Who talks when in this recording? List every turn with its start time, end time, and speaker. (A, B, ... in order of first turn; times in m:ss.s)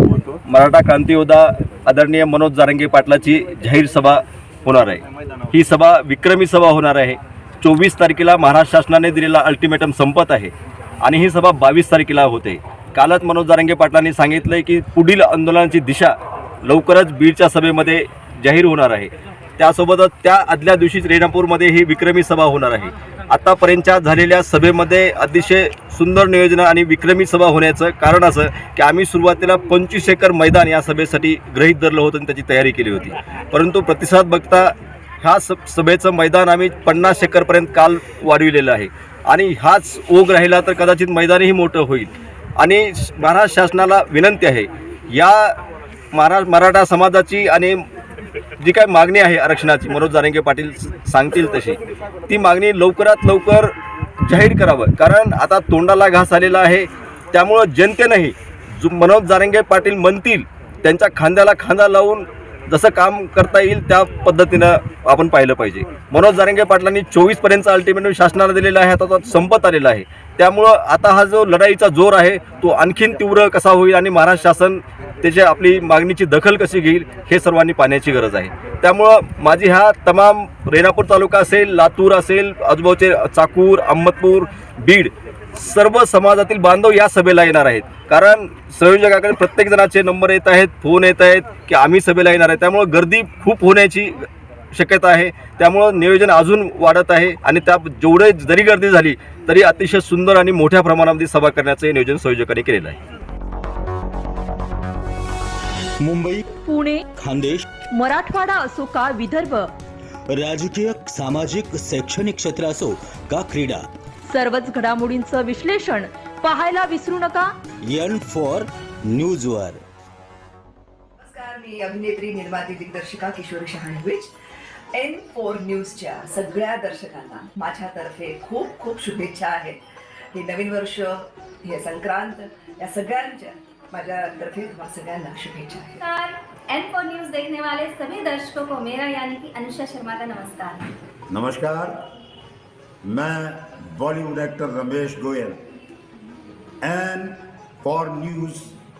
0:00.4-0:45.6 A
0:46.1-0:47.8 A
0:48.6-1:43.0 A
1:46.0-1:46.5 B
1:46.6-1:47.0 C
1:47.2-1:47.7 B
1:47.9-1:49.7 C
1:50.3-1:53.9 B
1:54.3-1:57.5 C
1:57.8-1:59.8 B
2:01.2-2:04.3 D
2:04.9-2:09.8 D
2:10.3-2:16.0 D
2:16.0-2:20.9 E
2:21.3-2:22.0 F
2:23.0-2:25.6 F
2:26.8-2:28.8 F